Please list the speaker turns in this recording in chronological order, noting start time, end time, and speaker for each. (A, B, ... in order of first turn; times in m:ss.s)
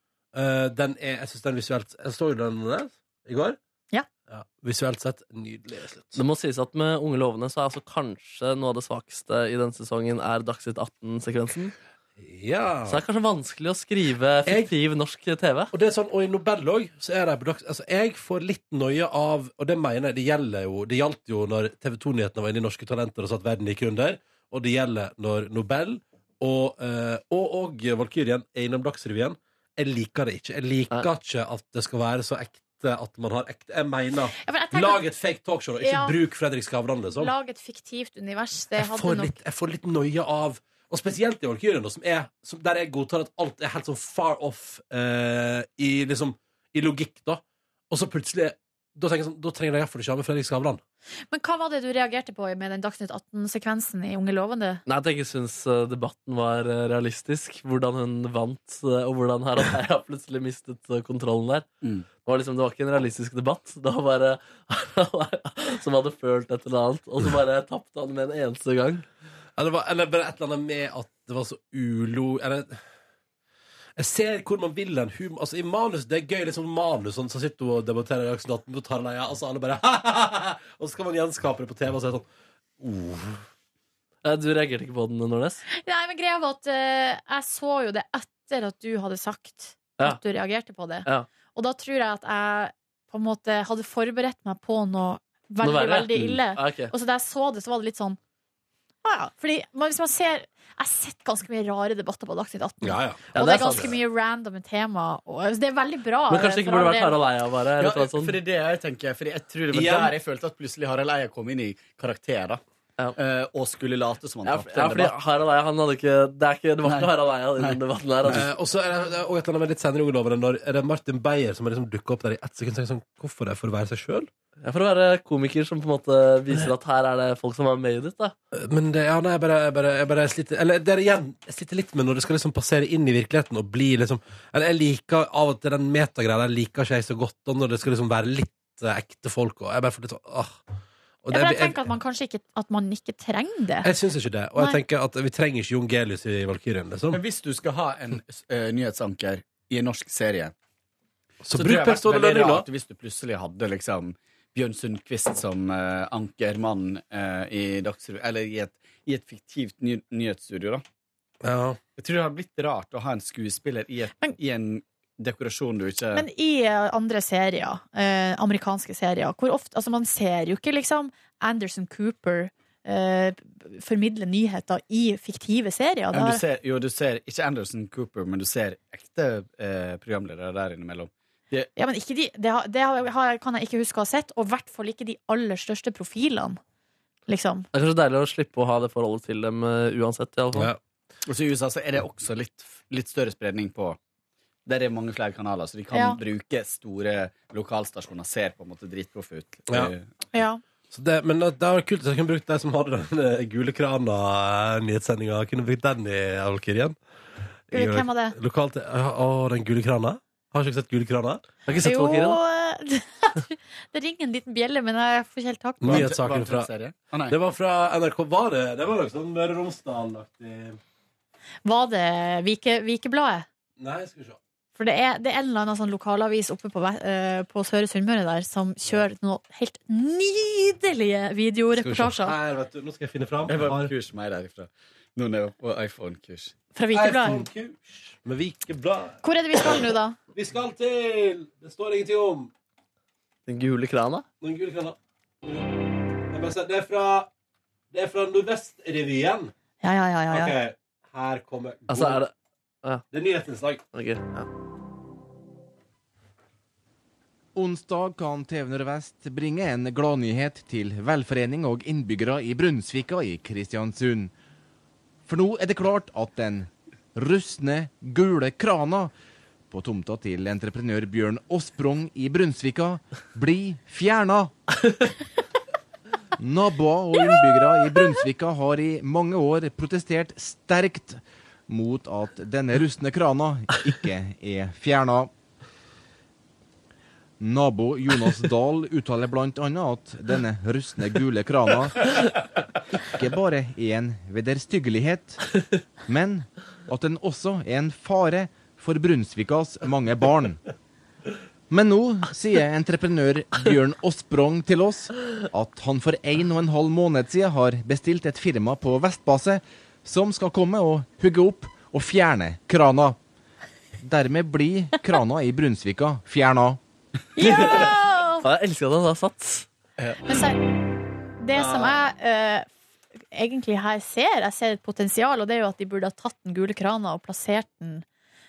0:00.3-0:03.6 A
0:04.3-0:06.2 A
0:06.2-0:11.7 B
0:12.2-0:13.0 A
0:12.9-0:15.7 B
0:14.5-0:14.7 A
0:15.7-0:37.3 A
0:34.4-0:35.0 C
0:35.8-0:36.2 C
0:37.2-0:39.4 C
0:38.8-0:50.8 A
0:51.3-0:54.8 C
0:54.9-1:01.7 B
1:01.8-1:02.1 D
1:02.2-1:09.0 B
1:09.6-1:12.8 A
1:14.0-1:22.3 A
1:22.8-1:23.4 A
1:24.2-1:25.6 B
1:25.7-1:38.2 C
1:35.6-1:36.9 B
1:39.0-1:47.2 C
1:42.8-1:44.0 A
1:43.3-1:44.0 B
1:46.3-1:48.4 B
1:47.8-1:52.6 D
1:49.7-1:50.1 A
1:53.2-1:55.2 D
1:54.5-1:58.4 B
1:56.8-1:58.5 D
1:58.3-2:04.3 A
2:04.6-2:08.3 B
2:08.5-2:20.6 A
2:21.2-2:21.8 A
2:21.3-2:23.9 C
2:23.8-2:27.2 A
2:27.1-2:30.5 D
2:31.4-2:32.7 A
2:31.5-2:40.8 D
2:41.4-2:41.8 A
2:42.0-2:46.3 D
2:46.1-2:56.4 C
2:56.1-3:01.7 D
3:01.8-3:06.6 C
3:07.3-3:07.7 C
3:07.7-3:10.7 B
3:10.5-3:10.8 A
3:11.3-3:14.0 D
3:14.7-3:20.1 D
3:15.9-3:16.2 C
3:20.3-3:20.6 C
3:20.9-3:27.0 A
3:27.7-3:31.6 A
3:27.7-3:28.4 C
3:31.7-3:32.4 B
3:31.8-3:36.1 C
3:35.8-3:36.7 A
3:35.8-3:37.4 D
3:37.3-3:40.8 A
3:41.6-3:43.5 C
3:43.8-3:44.4 A
3:44.8-3:52.4 C
3:51.8-3:53.9 A
3:53.5-3:56.6 D
3:56.8-3:57.5 C
3:56.9-3:59.2 A
3:59.2-4:00.2 C
4:00.3-4:02.5 A
4:03.5-4:04.2 B
4:04.4-4:05.7 A
4:06.3-4:07.3 A
4:07.9-4:09.5 A
4:09.8-4:10.6 C
4:10.3-4:12.2 A
4:11.9-4:12.3 B
4:13.1-4:13.8 A
4:13.9-4:14.5 B
4:17.6-4:24.3 E
4:25.3-4:29.1 E
4:29.7-4:34.5 E
4:36.4-4:45.3 E
4:47.4-4:52.1 E
4:53.1-5:00.6 E
5:01.7-5:13.2 E
5:14.0-5:16.8 E
5:17.4-5:18.4 C
5:17.4-5:17.9 B
5:18.4-5:19.7 B
5:20.2-5:20.6 C
5:21.4-5:22.7 C
5:21.5-5:22.0 A
5:23.3-5:28.0 C